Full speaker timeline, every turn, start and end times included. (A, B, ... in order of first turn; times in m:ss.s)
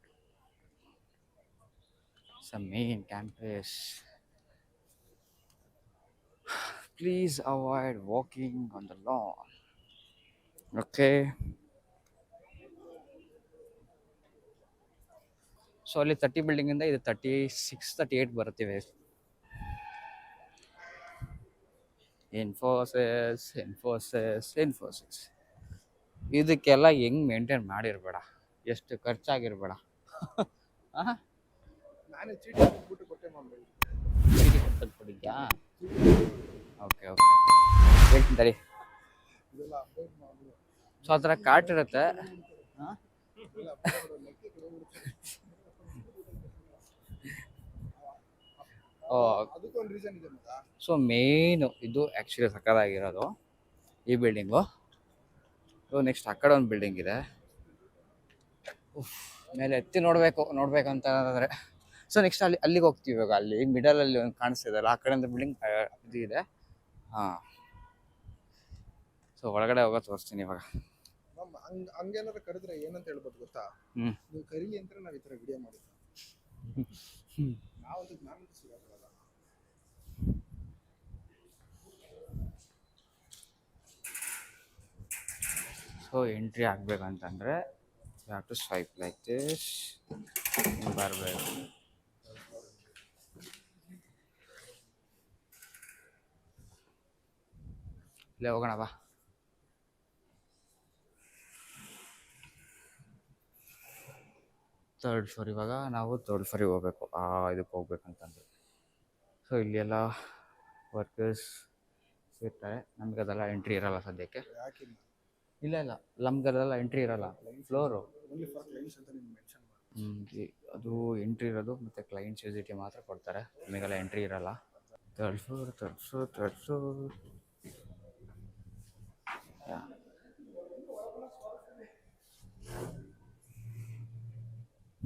0:02.4-0:04.0 A
0:06.5-0:09.4 A
0:10.8-0:11.2 A
0:15.9-0:18.9 A
0:22.3-0:25.3 A
0:26.3-0:31.2 A
0:32.1-0:33.8 B
0:34.3-0:35.5 A
0:35.8-0:36.6 B
0:36.8-0:37.4 A
0:38.1-0:38.6 A
0:39.5-0:40.6 B
0:41.0-0:42.2 A
0:41.2-0:42.7 B
0:43.4-0:46.6 B
0:49.0-0:50.6 B
0:49.1-0:49.5 A
0:50.8-0:53.3 A
0:54.1-0:54.6 A
0:55.9-0:57.2 A
0:58.9-1:01.5 A
1:02.1-1:06.4 A
1:07.1-1:07.4 A
1:09.4-1:10.6 A
1:11.3-1:13.7 B
1:14.3-1:16.0 B
1:16.7-1:17.6 A
1:17.8-1:19.2 B
1:26.0-1:27.6 A
1:28.2-1:30.0 A
1:30.5-1:31.6 A
1:38.4-1:38.9 A
1:45.0-1:48.4 A
1:49.5-1:50.0 A
1:50.9-1:51.5 A
1:52.4-1:54.4 A
1:54.5-1:55.0 B
1:55.6-1:58.1 A
1:57.3-1:59.9 B
1:59.9-2:04.6 A
2:05.2-2:07.2 A
2:09.6-2:09.9 A